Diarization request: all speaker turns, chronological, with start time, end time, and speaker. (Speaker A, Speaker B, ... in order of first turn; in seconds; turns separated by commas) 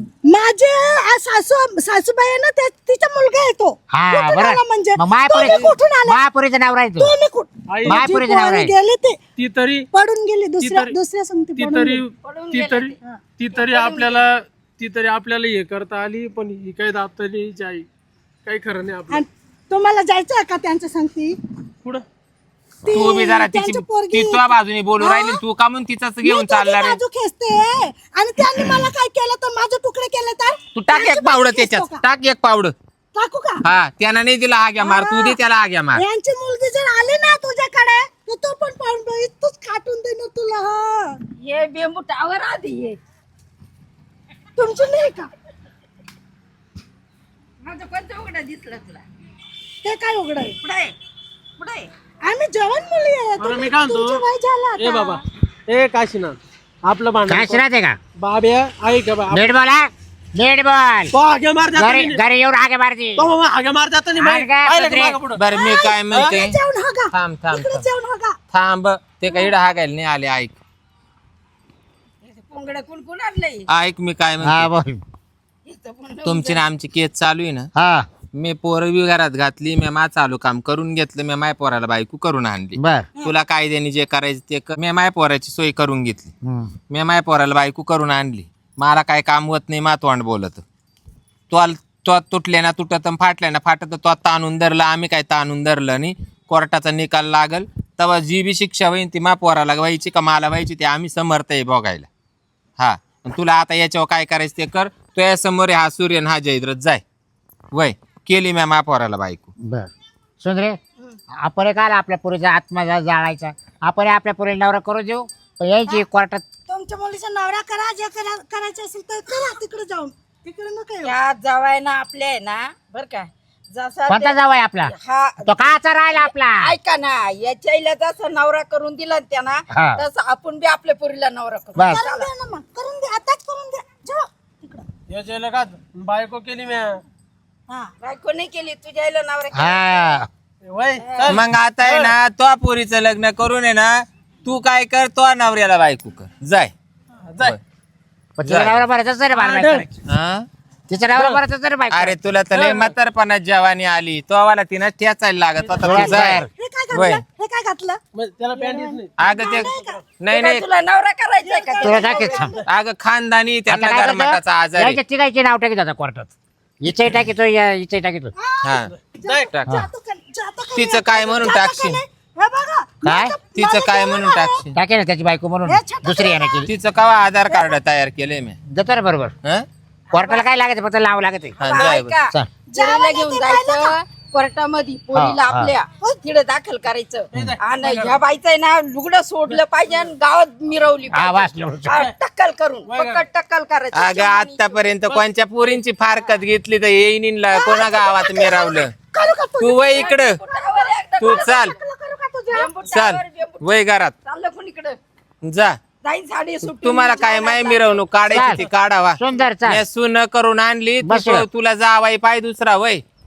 Speaker A: 0.2-6.2, Speaker B: 3.9-7.1, Speaker A: 7.0-9.2, Speaker C: 7.7-8.1, Speaker B: 7.9-8.7, Speaker C: 9.4-9.9, Speaker A: 9.9-12.0, Speaker C: 10.6-11.0, Speaker C: 11.6-17.9, Speaker D: 12.2-13.0, Speaker D: 13.6-14.3, Speaker C: 18.4-19.2, Speaker A: 19.1-21.4, Speaker A: 22.9-25.4, Speaker E: 22.9-27.0, Speaker A: 26.2-32.0, Speaker E: 28.6-28.9, Speaker E: 30.7-32.7, Speaker A: 33.1-33.6, Speaker E: 33.6-36.0, Speaker A: 34.8-35.4, Speaker A: 36.0-41.1, Speaker D: 41.4-43.0, Speaker A: 44.6-45.3, Speaker D: 47.6-49.0, Speaker A: 49.8-50.6, Speaker D: 50.6-50.9, Speaker D: 51.6-51.9, Speaker A: 52.3-55.2, Speaker C: 53.4-54.2, Speaker C: 54.8-57.6, Speaker B: 57.3-58.0, Speaker C: 58.2-59.5, Speaker B: 59.3-61.1, Speaker C: 61.1-62.2, Speaker B: 61.8-63.3, Speaker C: 63.2-65.4, Speaker B: 64.2-65.2, Speaker E: 65.3-66.6, Speaker A: 65.5-68.4, Speaker C: 66.1-66.4, Speaker E: 67.1-67.9, Speaker E: 68.5-70.6, Speaker D: 72.2-73.7, Speaker E: 73.7-74.7, Speaker B: 74.4-75.0, Speaker D: 75.7-76.6, Speaker E: 76.2-77.7, Speaker B: 77.8-78.1, Speaker E: 78.3-86.3, Speaker B: 82.8-83.1, Speaker B: 86.4-86.7, Speaker E: 86.9-90.6, Speaker E: 91.5-102.1, Speaker E: 102.8-107.0, Speaker E: 107.7-109.5, Speaker B: 109.7-109.9, Speaker B: 110.4-110.8, Speaker B: 111.4-116.4, Speaker A: 116.7-121.2, Speaker D: 121.0-132.3, Speaker B: 124.1-126.7, Speaker B: 129.7-130.0, Speaker B: 131.8-132.0, Speaker A: 131.8-134.9, Speaker C: 135.1-137.0, Speaker D: 138.0-140.2, Speaker B: 139.5-140.3, Speaker C: 140.7-142.2, Speaker D: 141.0-141.4, Speaker E: 141.3-146.7, Speaker C: 147.3-147.6, Speaker B: 148.4-149.9, Speaker E: 148.4-148.9, Speaker C: 149.3-149.9, Speaker E: 150.1-150.5, Speaker B: 150.9-152.2, Speaker C: 151.2-151.4, Speaker E: 151.9-157.2, Speaker C: 152.5-152.9, Speaker C: 155.6-156.3, Speaker B: 155.8-156.5, Speaker A: 156.5-158.0, Speaker C: 158.2-160.0, Speaker A: 158.5-160.0, Speaker E: 159.2-160.7, Speaker D: 160.3-162.5, Speaker A: 161.4-162.7, Speaker B: 161.8-162.5, Speaker E: 162.6-165.0, Speaker B: 163.7-166.3, Speaker B: 166.8-168.3, Speaker A: 168.4-174.7, Speaker E: 168.6-169.8, Speaker C: 168.9-169.4, Speaker E: 170.7-172.0, Speaker B: 173.1-173.3, Speaker E: 173.5-174.8, Speaker B: 174.8-176.7, Speaker A: 175.7-176.7, Speaker E: 176.7-178.6, Speaker A: 177.5-177.8, Speaker B: 178.7-179.3, Speaker D: 180.1-180.4, Speaker B: 180.1-181.6, Speaker E: 181.6-182.1, Speaker D: 181.6-194.8, Speaker A: 182.7-183.9, Speaker B: 185.1-185.7, Speaker C: 187.3-188.2, Speaker C: 189.5-190.1, Speaker B: 191.1-192.0, Speaker C: 192.9-193.2, Speaker E: 193.9-198.9, Speaker C: 195.1-195.8, Speaker A: 197.5-202.7, Speaker D: 197.9-198.8, Speaker E: 199.6-200.4, Speaker D: 199.9-201.8, Speaker E: 201.2-201.8, Speaker D: 202.5-205.0, Speaker E: 202.8-204.2, Speaker E: 205.4-205.8, Speaker D: 206.0-208.7, Speaker E: 206.6-213.0, Speaker B: 208.3-208.6, Speaker B: 209.2-209.8, Speaker B: 211.0-211.5